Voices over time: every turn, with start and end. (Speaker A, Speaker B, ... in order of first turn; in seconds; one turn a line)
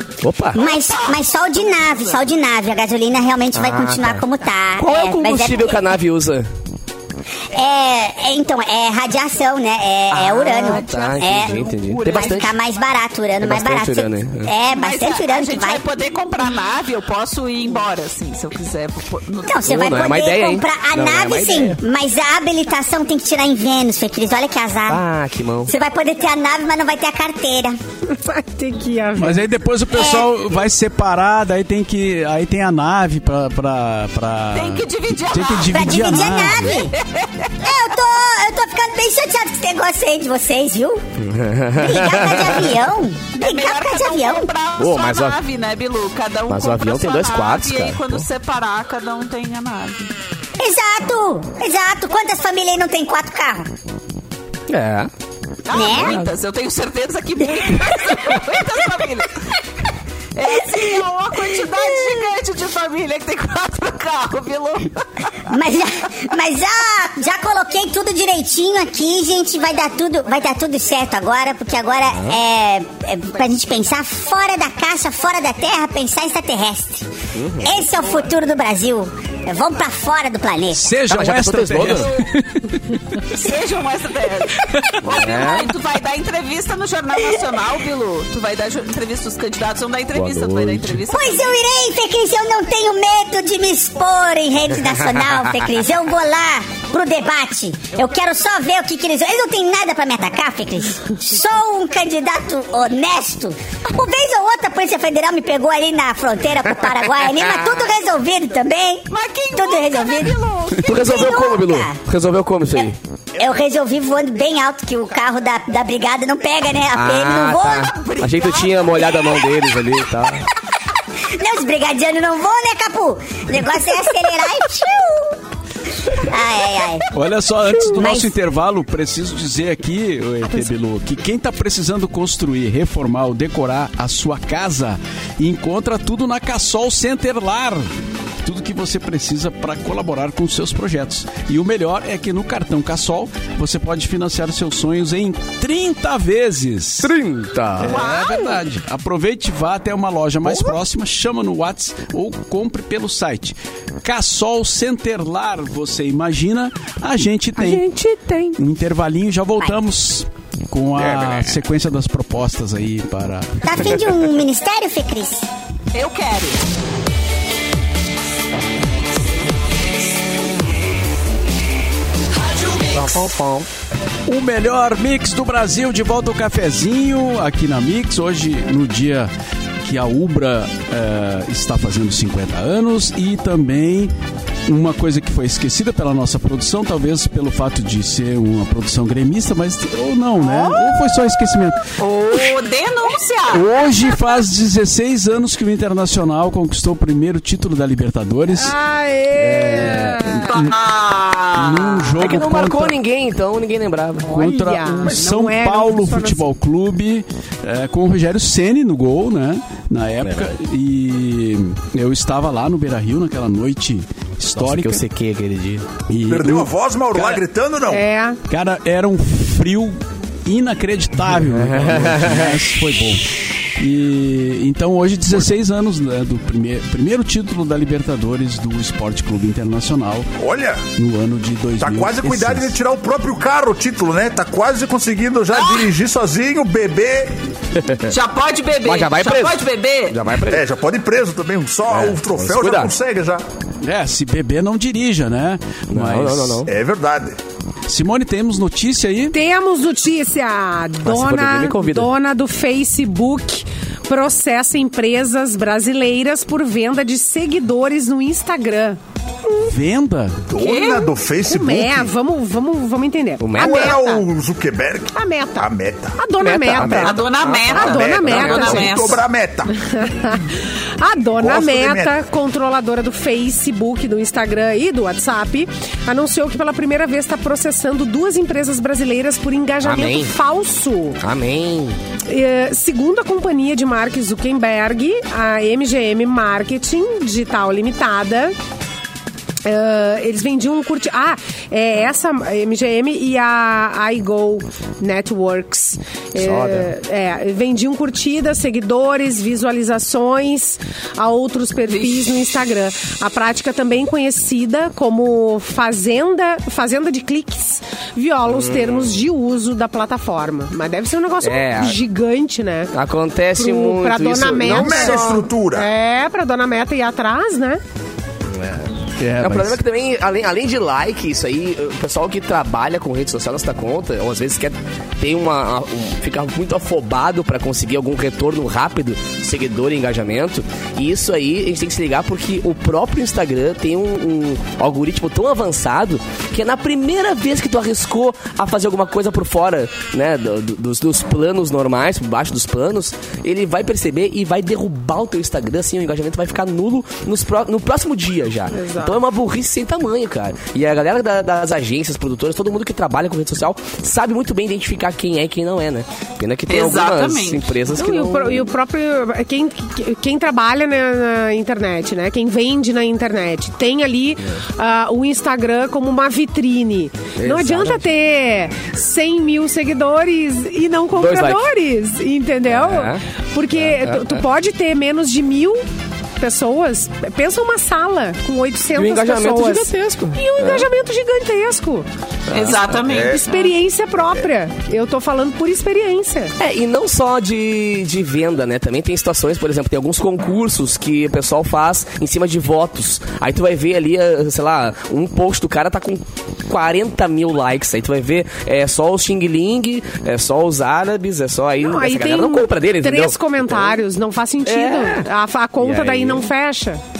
Speaker A: 0.2-0.7
Speaker B: 0.5-5.8
Speaker C: 0.7-2.2
Speaker A: 3.5-4.2
Speaker A: 4.8-6.5
Speaker B: 7.5-15.8
Speaker A: 10.1-12.6
Speaker C: 10.6-12.3
Speaker A: 13.4-14.5
Speaker C: 14.7-19.7
Speaker B: 19.5-25.0
Speaker A: 19.6-21.8
Speaker A: 24.9-25.7
Speaker B: 25.7-27.8
Speaker D: 28.1-29.5
Speaker E: 29.2-36.8
Speaker B: 29.9-30.3
Speaker C: 34.5-37.5
Speaker B: 35.7-36.9
Speaker B: 37.6-41.0
Speaker A: 41.2-42.8
Speaker B: 41.8-44.5
Speaker C: 43.4-50.1
Speaker A: 44.8-45.4
Speaker A: 46.5-48.2
Speaker B: 50.6-53.7
Speaker A: 54.7-55.1
Speaker C: 55.7-59.4
Speaker B: 55.7-56.2
Speaker A: 55.9-56.3
Speaker C: 60.3-65.3
Speaker B: 65.5-77.1
Speaker A: 72.1-72.4
Speaker A: 77.3-77.8
Speaker B: 77.6-80.9
Speaker E: 80.7-83.3
Speaker A: 81.0-82.2
Speaker C: 83.3-91.5
Speaker E: 84.7-85.0
Speaker A: 85.0-85.7
Speaker A: 90.1-91.0
Speaker B: 91.1-112.0
Speaker A: 94.8-95.5
Speaker A: 107.4-107.7
Speaker C: 109.1-111.3
Speaker A: 110.8-113.0
Speaker B: 113.4-117.9
Speaker A: 116.9-120.4
Speaker C: 117.9-119.5
Speaker B: 121.3-125.4
Speaker B: 126.1-127.1
Speaker E: 127.1-137.9
Speaker B: 127.8-128.3
Speaker E: 138.4-147.1
Speaker A: 147.0-148.0
Speaker E: 147.8-157.9
Speaker C: 147.8-148.6
Speaker A: 150.5-150.7
Speaker D: 157.6-158.6
Speaker E: 158.6-163.7
Speaker A: 160.9-161.6
Speaker B: 163.6-165.5
Speaker A: 163.8-164.2
Speaker C: 165.9-166.6
Speaker A: 172.8-173.7
Speaker E: 174.3-184.1
Speaker E: 184.7-191.8
Speaker D: 190.4-190.9
Speaker C: 192.0-193.8
Speaker E: 193.5-198.7
Speaker D: 198.6-200.5
Speaker E: 199.4-200.8
Speaker A: 199.5-200.2
Speaker C: 200.5-202.3
Speaker E: 201.5-202.9
Speaker A: 202.2-204.3
Speaker D: 204.2-206.5
Speaker E: 204.3-215.0
Speaker A: 210.2-210.6
Speaker A: 214.5-216.0
Speaker E: 216.0-216.7
Speaker F: 216.2-218.1
Speaker D: 217.9-218.4
Speaker E: 218.5-230.3
Speaker A: 221.4-222.6
Speaker F: 230.4-230.8
Speaker E: 231.0-232.7
Speaker F: 231.8-237.4
Speaker C: 235.6-235.9
Speaker A: 237.7-238.1
Speaker C: 238.1-240.2
Speaker A: 238.8-240.6
Speaker F: 240.5-243.4
Speaker A: 241.9-242.9
Speaker E: 243.8-246.6
Speaker A: 245.9-246.7
Speaker F: 246.7-247.4
Speaker E: 247.9-249.3
Speaker D: 249.3-259.0
Speaker A: 251.0-252.1
Speaker E: 259.6-260.4
Speaker F: 260.5-262.1
Speaker C: 260.6-261.1
Speaker D: 261.4-264.2
Speaker A: 263.4-263.9
Speaker F: 263.6-266.2
Speaker D: 265.1-269.1
Speaker A: 266.4-269.0
Speaker F: 266.8-267.1
Speaker C: 267.0-269.2
Speaker F: 267.7-269.7
Speaker D: 269.7-281.2
Speaker F: 271.4-272.2
Speaker A: 279.8-280.3
Speaker A: 281.2-282.0
Speaker D: 282.2-288.6
Speaker D: 289.6-312.9
Speaker A: 296.4-296.9
Speaker C: 301.9-302.2
Speaker A: 308.5-309.2
Speaker A: 311.4-312.0
Speaker A: 312.9-315.4
Speaker D: 313.6-317.8
Speaker F: 314.6-315.9
Speaker A: 318.5-358.7
Speaker E: 319.2-319.8
Speaker D: 348.7-349.2
Speaker C: 356.7-357.7
Speaker D: 357.9-375.8
Speaker A: 367.4-368.1
Speaker A: 371.1-371.7
Speaker A: 372.7-373.2
Speaker A: 373.8-374.4
Speaker D: 376.4-382.1
Speaker A: 378.9-380.9
Speaker A: 382.5-383.2
Speaker C: 382.5-383.6
Speaker F: 383.0-383.4
Speaker D: 383.1-386.5
Speaker A: 386.6-404.0
Speaker D: 401.8-407.0
Speaker A: 404.6-405.2
Speaker A: 405.8-406.5